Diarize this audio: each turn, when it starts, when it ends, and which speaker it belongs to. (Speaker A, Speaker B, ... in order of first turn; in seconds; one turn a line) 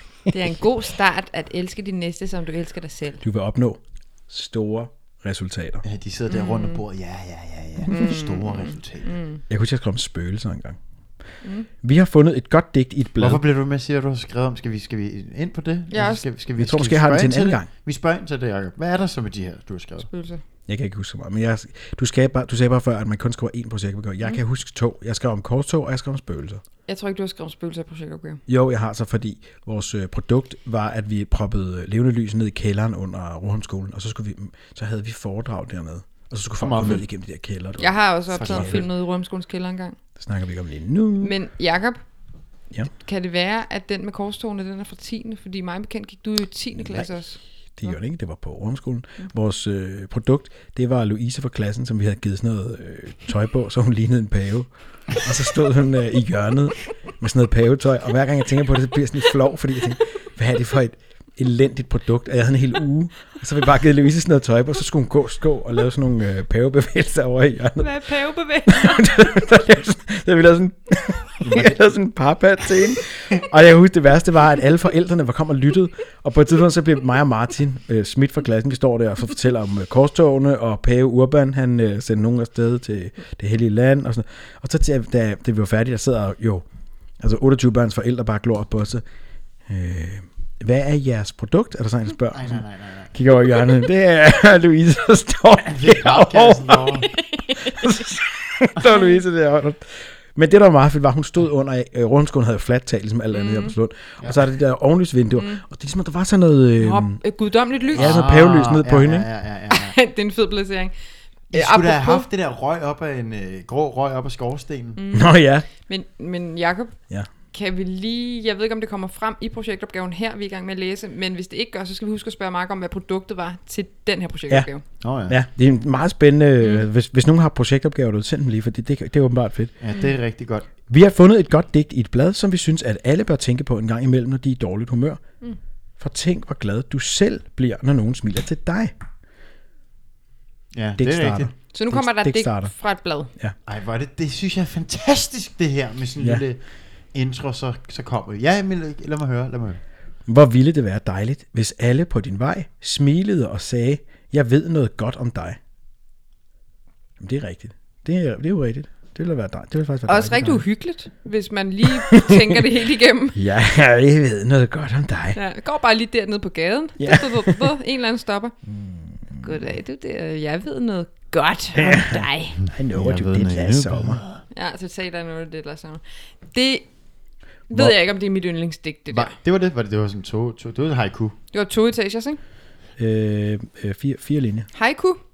Speaker A: 0.3-3.2
Speaker B: 3.2-5.8
Speaker C: 5.8-9.1
Speaker A: 6.3-6.8
Speaker A: 7.9-9.4
Speaker B: 9.5-10.8
Speaker A: 11.4-11.7
Speaker B: 11.8-13.4
Speaker C: 13.2-20.1
Speaker A: 15.9-16.2
Speaker B: 16.6-17.7
Speaker A: 20.1-20.4
Speaker B: 20.7-26.6
Speaker A: 26.9-28.4
Speaker B: 28.5-38.8
Speaker C: 36.6-37.0
Speaker A: 37.8-40.0
Speaker C: 38.3-38.9
Speaker B: 40.2-41.3
Speaker A: 41.2-42.0
Speaker A: 42.9-47.9
Speaker B: 47.8-67.9
Speaker A: 67.8-69.3
Speaker B: 68.7-86.6
Speaker C: 71.4-71.8
Speaker B: 87.2-89.0
Speaker B: 89.7-97.0
Speaker C: 92.3-93.1
Speaker C: 95.7-97.1
Speaker A: 97.1-97.8
Speaker B: 97.5-107.2
Speaker A: 98.8-99.2
Speaker A: 103.3-103.7
Speaker A: 105.3-105.6
Speaker A: 106.8-108.2
Speaker B: 107.9-109.3
Speaker C: 107.9-110.0
Speaker A: 109.7-110.9
Speaker A: 111.5-112.3
Speaker C: 111.5-115.0
Speaker A: 115.0-117.0
Speaker B: 115.1-115.7
Speaker A: 117.5-124.8
Speaker C: 125.0-125.3
Speaker B: 125.3-129.7
Speaker C: 129.8-130.7
Speaker B: 130.9-135.2
Speaker B: 136.0-138.9
Speaker C: 140.7-141.5
Speaker B: 141.0-142.7
Speaker A: 141.7-143.3
Speaker C: 143.7-146.6
Speaker C: 147.1-149.8
Speaker B: 150.2-155.6
Speaker B: 157.2-160.6
Speaker A: 160.1-163.4
Speaker B: 162.1-162.6
Speaker B: 163.3-165.4
Speaker A: 165.3-168.5
Speaker B: 167.0-167.7
Speaker B: 168.7-169.4
Speaker A: 169.4-172.6
Speaker B: 171.7-174.2
Speaker C: 172.6-174.4
Speaker A: 174.5-176.9
Speaker A: 177.7-179.3
Speaker B: 177.7-177.9
Speaker C: 179.1-181.4
Speaker A: 181.5-182.4
Speaker B: 183.0-184.7
Speaker A: 184.7-185.2